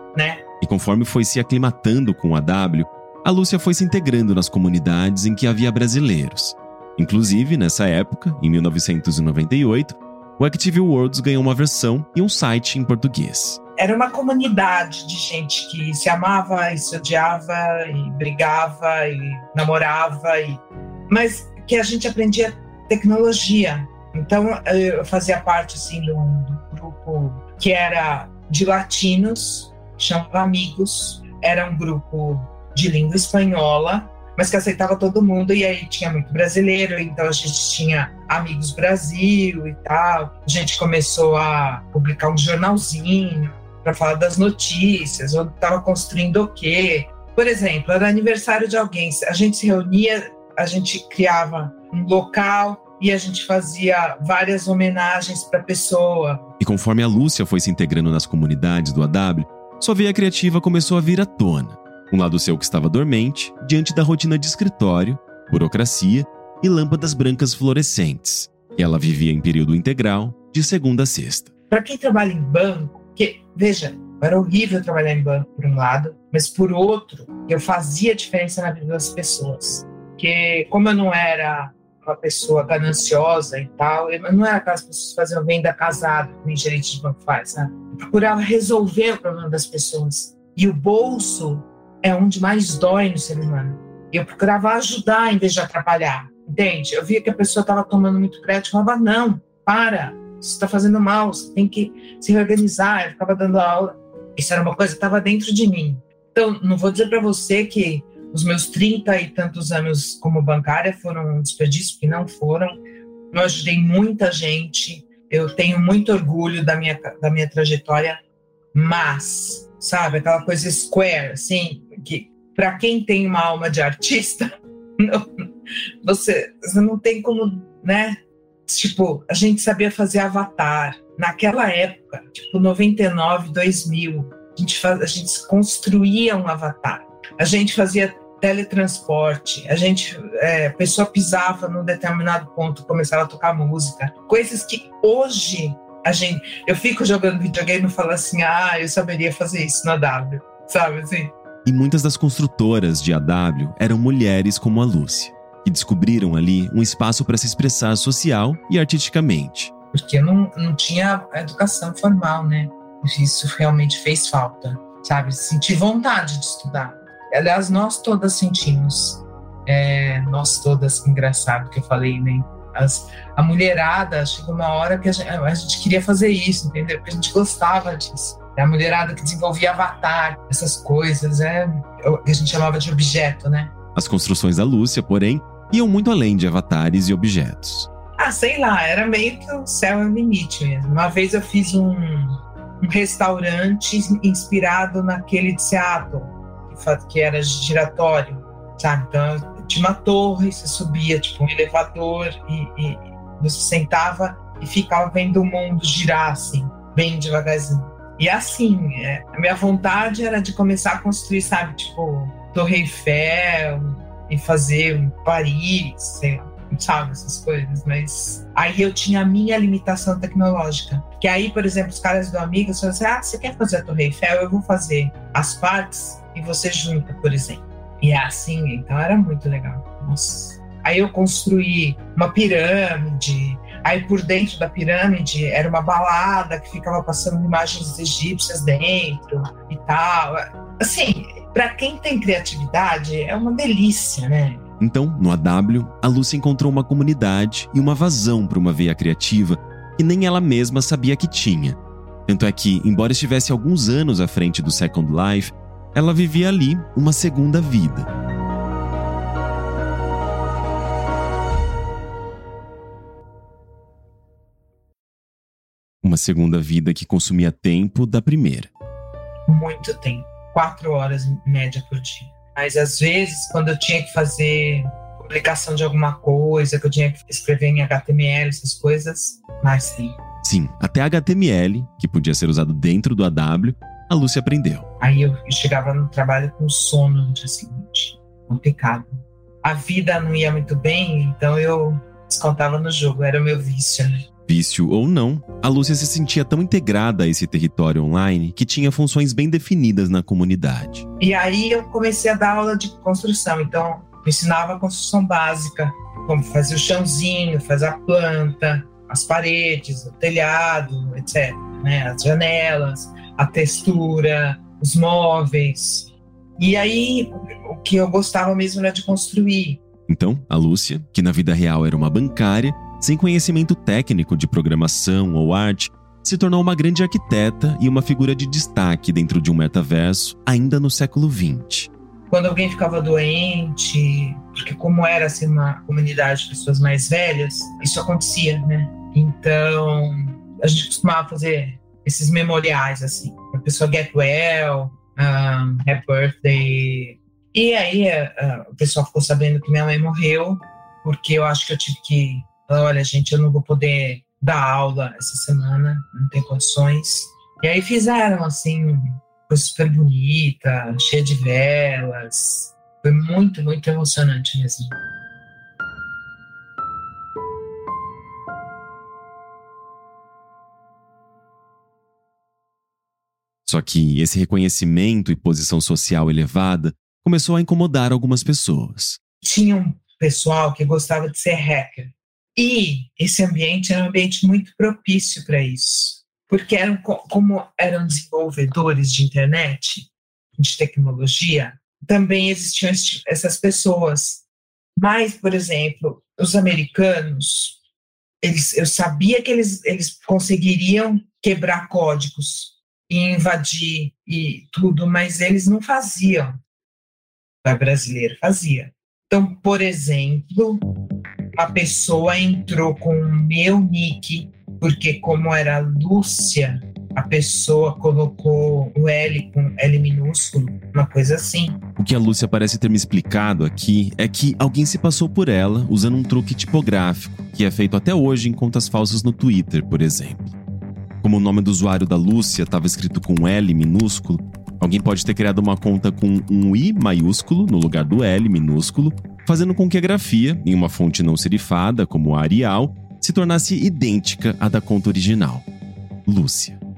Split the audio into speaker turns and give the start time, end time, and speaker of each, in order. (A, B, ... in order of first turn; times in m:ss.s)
0:00.1-0:00.4 A
0:00.6-0:13.6 B
0:13.8-0:56.4 A
0:56.6-1:11.5 B
1:11.7-1:52.8 A
1:53.3-1:58.2 A
1:58.7-2:05.4 A
2:06.0-2:31.3 A
2:31.6-2:39.7 B
2:39.9-3:03.7 A
3:03.9-3:07.9 B
3:08.2-4:04.6 A
4:04.8-4:18.1 B
4:26.0-4:28.7 B
4:29.5-4:40.2 A
4:40.4-4:44.8 B
4:45.0-4:54.2 A
4:54.5-5:01.0 B
5:01.2-5:19.8 A
5:20.1-5:31.9 B
5:32.3-6:04.9 A
6:13.6-6:19.2 B
6:19.4-6:34.4 A
6:35.0-6:37.8 A
6:38.4-6:46.6 A
6:47.6-6:50.8 A
6:51.5-7:01.8 A
7:02.0-7:10.6 B
7:11.2-7:25.6 B
7:26.2-7:26.8 B